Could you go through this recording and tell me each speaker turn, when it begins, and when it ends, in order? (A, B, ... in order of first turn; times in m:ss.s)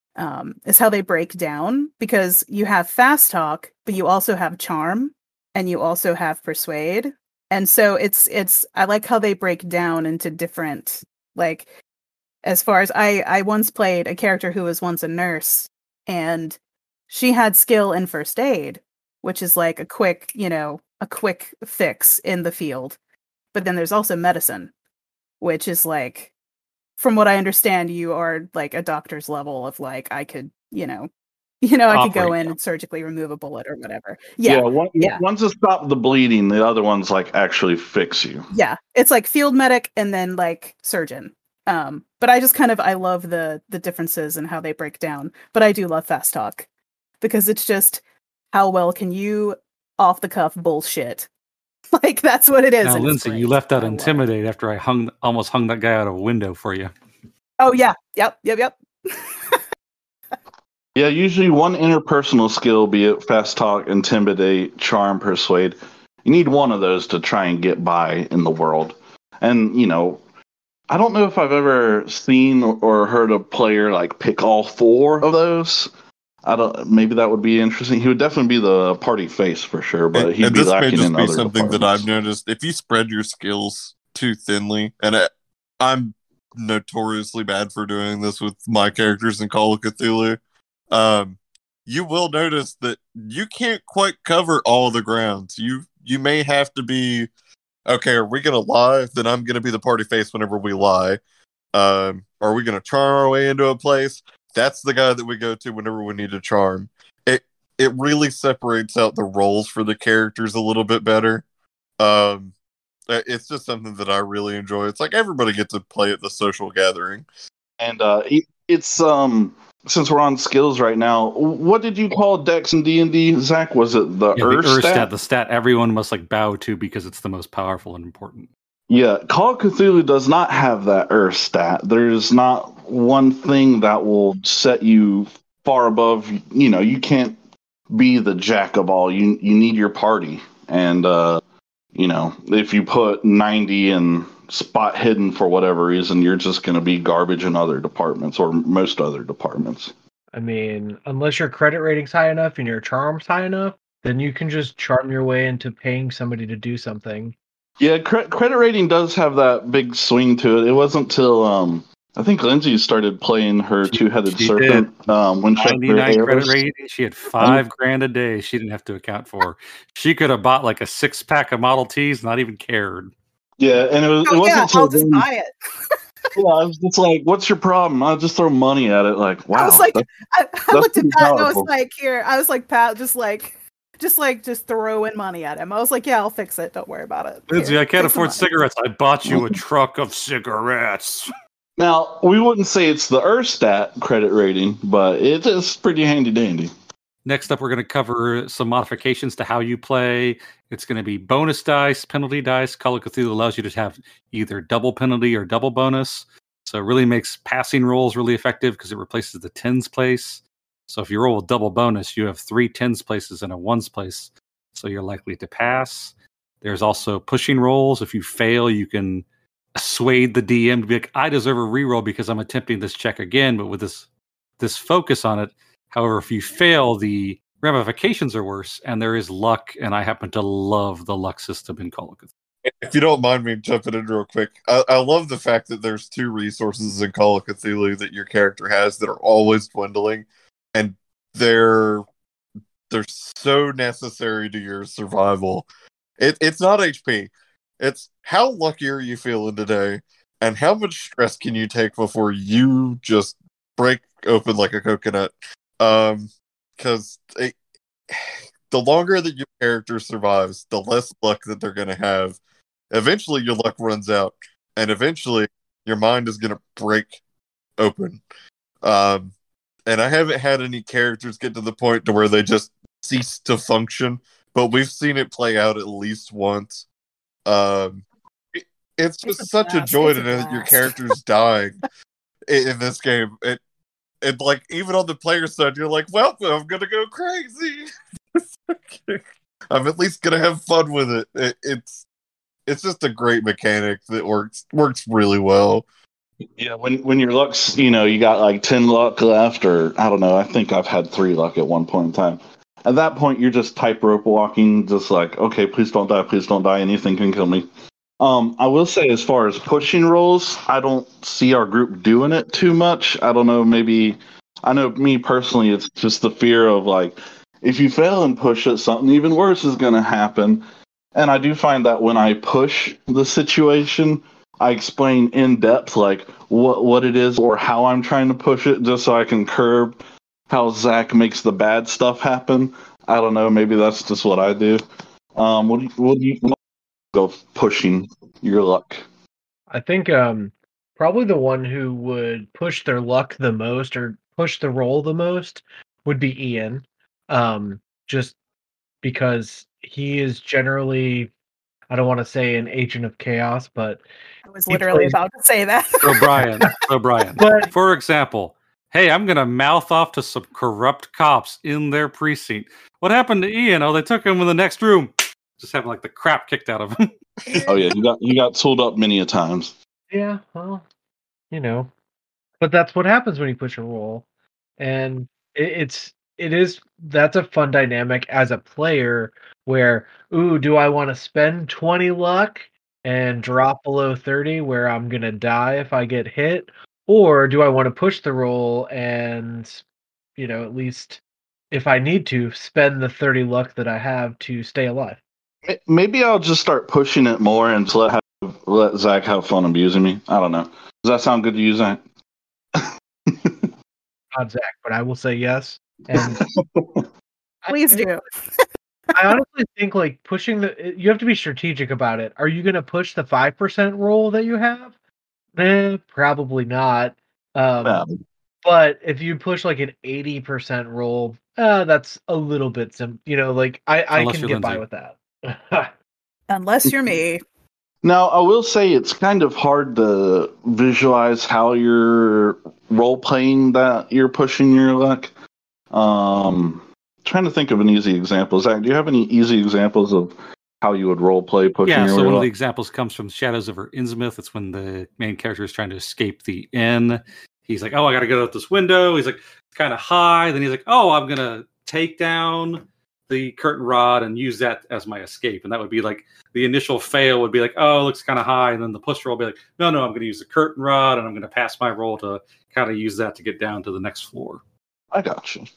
0:00.2-0:11.6 A
0:12.4-0:16.6 A
0:17.1-0:23.0 A
0:23.5-0:24.7 A
0:25.4-0:26.3 A
0:27.0-0:31.1 A
0:31.6-0:35.2 A
0:31.9-0:32.5 B
0:34.4-0:38.5 C
0:38.5-0:46.6 A
0:47.2-0:48.0 A
0:48.5-0:51.3 A
0:51.9-0:54.2 A
0:52.8-0:56.9 B
0:57.6-0:59.6 A
1:00.9-1:10.2 C
1:10.9-1:15.9 C
1:16.4-1:22.1 C
1:20.1-1:30.4 D
1:30.9-1:37.3 D
1:37.9-1:41.2 D
1:41.7-1:51.4 D
1:52.0-1:52.5 D
1:53.1-1:57.2 D
1:57.8-2:05.1 C
2:04.4-2:08.5 B
2:08.9-2:17.4 C
2:17.9-2:21.4 C
2:21.9-2:29.9 C
2:30.3-2:37.3 E
2:37.8-2:46.6 C
2:43.9-2:44.9 B
2:45.6-2:53.1 B
2:53.6-2:55.2 C
2:54.2-2:56.0 A
2:56.3-3:00.1 C
2:59.5-3:08.4 A
3:00.7-3:01.7 C
3:07.5-3:11.3 B
3:09.2-3:09.6 C
3:11.8-3:16.7 C
3:17.2-3:44.1 B
3:44.6-3:52.3 B
3:52.6-4:02.0 D
4:02.9-4:05.7 D
4:06.2-4:17.6 D
4:18.1-4:22.4 D
4:22.9-4:27.2 D
4:27.8-4:28.2 D
4:28.8-4:29.3 D
4:29.9-4:36.9 D
4:37.4-4:41.8 D
4:39.2-4:41.1 A
4:42.5-4:43.6 D
4:44.2-4:47.9 D
4:48.4-4:52.0 D
4:52.6-4:55.8 D
4:56.6-5:07.7 C
5:08.2-5:20.6 C
5:21.1-5:30.0 C
5:30.5-5:34.8 C
5:35.3-5:36.6 C
5:37.1-5:39.0 C
5:39.7-5:48.3 E
5:49.0-5:51.3 E
5:51.9-5:54.0 E
5:54.5-5:56.3 A
5:54.7-5:55.2 E
5:56.0-6:07.0 B
5:57.4-5:57.7 E
6:07.7-6:09.7 C
6:10.1-6:10.8 E
6:11.5-6:11.9 E
6:12.6-6:14.2 E
6:14.8-6:29.8 E
6:30.4-6:35.2 E
6:35.6-6:42.0 C
6:42.7-6:43.7 C
6:44.3-6:46.4 E
6:46.2-6:47.1 C
6:47.6-6:48.1 E
6:47.7-6:48.6 A
6:49.1-6:54.9 E
6:55.5-6:58.0 E
6:57.8-6:58.2 C
6:58.6-7:05.9 E
7:04.1-7:04.8 B
7:06.5-7:07.4 A
7:08.0-7:15.3 C
7:15.9-7:22.5 C
7:21.8-7:44.6 B
7:45.1-7:45.6 C